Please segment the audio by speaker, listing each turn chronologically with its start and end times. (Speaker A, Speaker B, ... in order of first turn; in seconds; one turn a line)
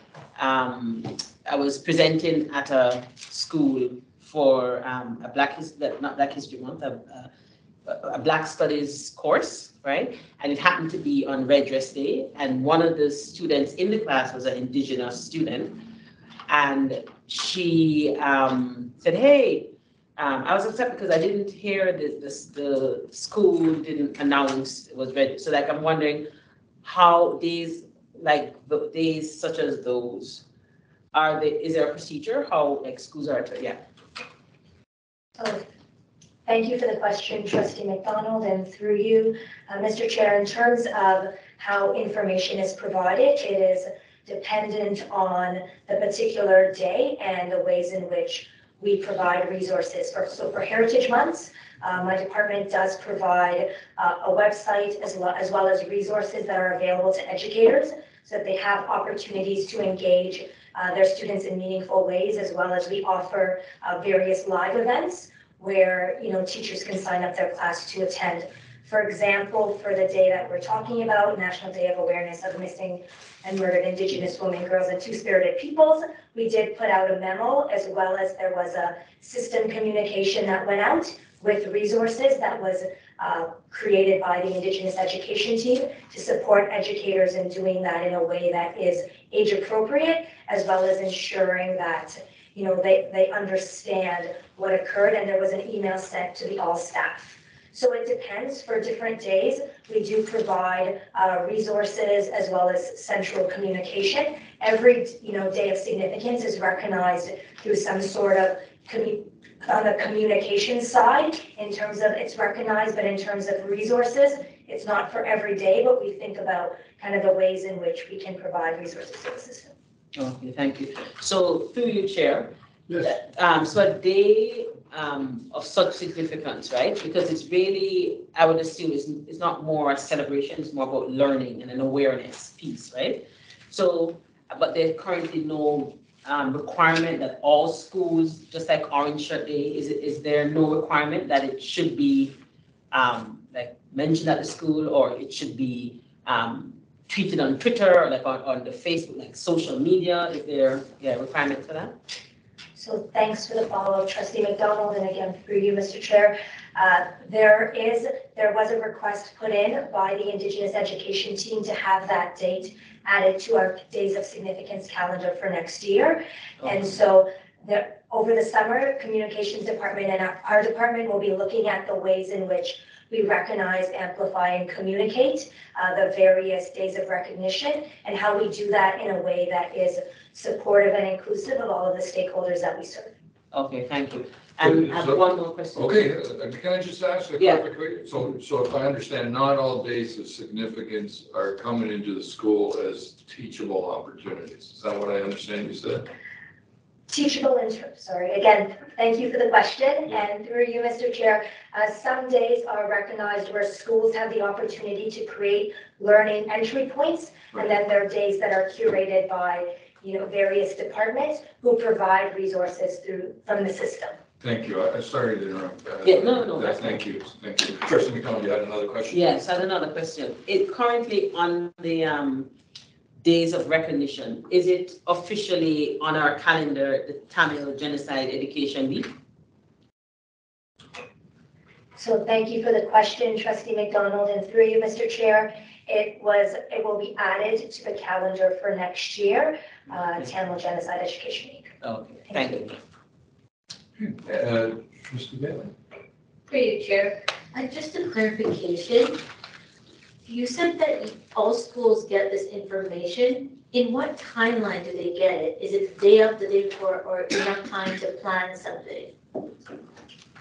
Speaker A: 0.3-7.3
Speaker A: 7.8-15.8
Speaker A: 16.5-26.3
Speaker A: 26.8-30.4
Speaker A: 31.1-33.8
Speaker B: 35.4-35.6
Speaker B: 36.5-119.7
Speaker A: 120.1-142.3
Speaker A: 142.9-151.9
Speaker B: 152.8-183.1
Speaker A: 183.5-186.1
Speaker C: 184.6-196.1
Speaker A: 187.4-187.6
Speaker B: 197.1-214.1
Speaker C: 214.4-219.2
Speaker A: 216.0-217.0
Speaker A: 219.1-222.5
Speaker A: 223.2-229.1
Speaker B: 231.9-241.7
Speaker A: 241.8-242.8
Speaker B: 242.3-242.6
Speaker C: 244.0-245.7
Speaker D: 246.5-249.2
Speaker D: 250.2-259.1